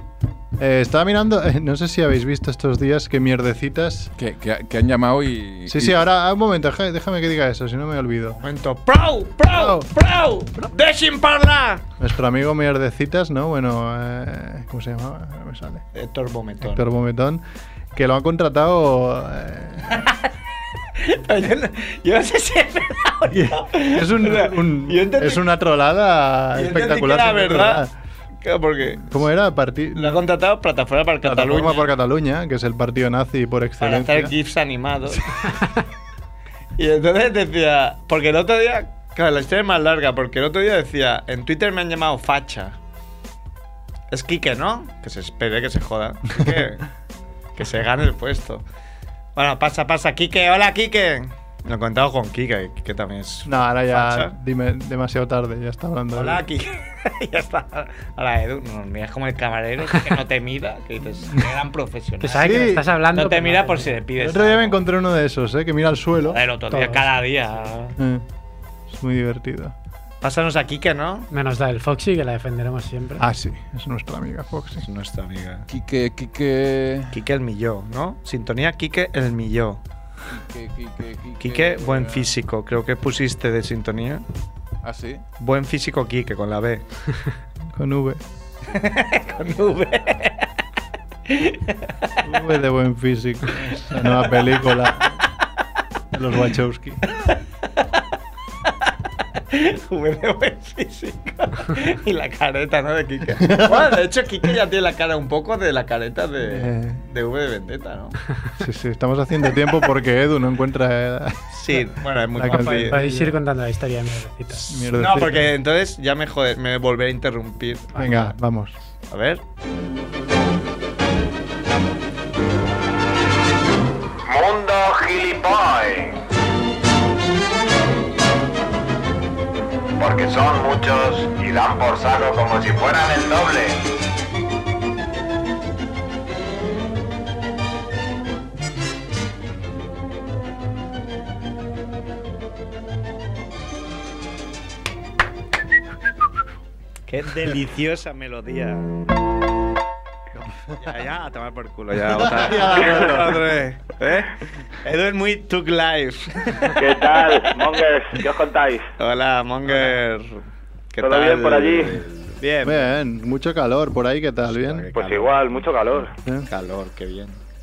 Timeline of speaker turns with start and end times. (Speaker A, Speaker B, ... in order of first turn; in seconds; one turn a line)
Speaker A: 0.6-4.1
Speaker B: 4.2-6.0
Speaker A: 5.7-8.4
Speaker C: 8.4-11.8
Speaker A: 9.5-9.9
Speaker A: 12.0-15.8
Speaker C: 15.9-16.8
Speaker A: 16.6-17.4
Speaker A: 17.9-20.1
Speaker C: 19.9-20.3
Speaker C: 20.9-25.4
Speaker A: 23.3-27.9
Speaker C: 26.5-27.9
Speaker C: 28.4-29.1
Speaker A: 29.0-30.2
Speaker C: 29.9-31.9
Speaker A: 31.2-34.3
Speaker C: 33.8-35.5
Speaker C: 36.8-42.8
Speaker C: 44.1-46.9
Speaker C: 47.5-48.6
Speaker C: 49.4-54.3
Speaker A: 53.5-56.4
Speaker C: 56.1-64.8
Speaker D: 62.2-64.0
Speaker A: 62.4-62.9
Speaker A: 64.2-66.4
Speaker C: 66.3-68.0
Speaker D: 66.7-67.0
Speaker A: 68.0-68.2
Speaker A: 68.9-69.7
Speaker C: 70.2-71.3
Speaker D: 71.3-73.2
Speaker A: 73.2-74.8
Speaker C: 74.8-75.7
Speaker B: 75.7-77.2
Speaker C: 77.1-79.8
Speaker B: 80.3-82.3
Speaker C: 81.4-84.2
Speaker B: 84.8-85.2
Speaker C: 85.4-86.8
Speaker A: 87.7-88.2
Speaker C: 88.7-90.5
Speaker B: 89.3-90.2
Speaker C: 91.3-92.1
Speaker A: 92.2-95.2
Speaker C: 93.8-94.5
Speaker A: 96.1-97.0
Speaker C: 99.5-108.2
Speaker A: 103.4-104.0
Speaker A: 106.4-107.0
Speaker A: 108.6-113.2
Speaker C: 111.5-113.3
Speaker D: 112.5-114.9
Speaker A: 114.7-115.5
Speaker C: 114.9-118.2
Speaker A: 117.9-118.7
Speaker C: 119.1-119.4
Speaker E: 124.2-126.2
Speaker E: 130.0-133.8
Speaker C: 147.1-149.0
Speaker C: 150.7-156.8
Speaker A: 152.0-153.6
Speaker F: 156.7-158.9
Speaker C: 159.0-162.9
Speaker F: 161.0-162.0
Speaker A: 162.6-164.9
Speaker C: 164.5-165.5
Speaker F: 164.9-166.1
Speaker C: 166.5-167.4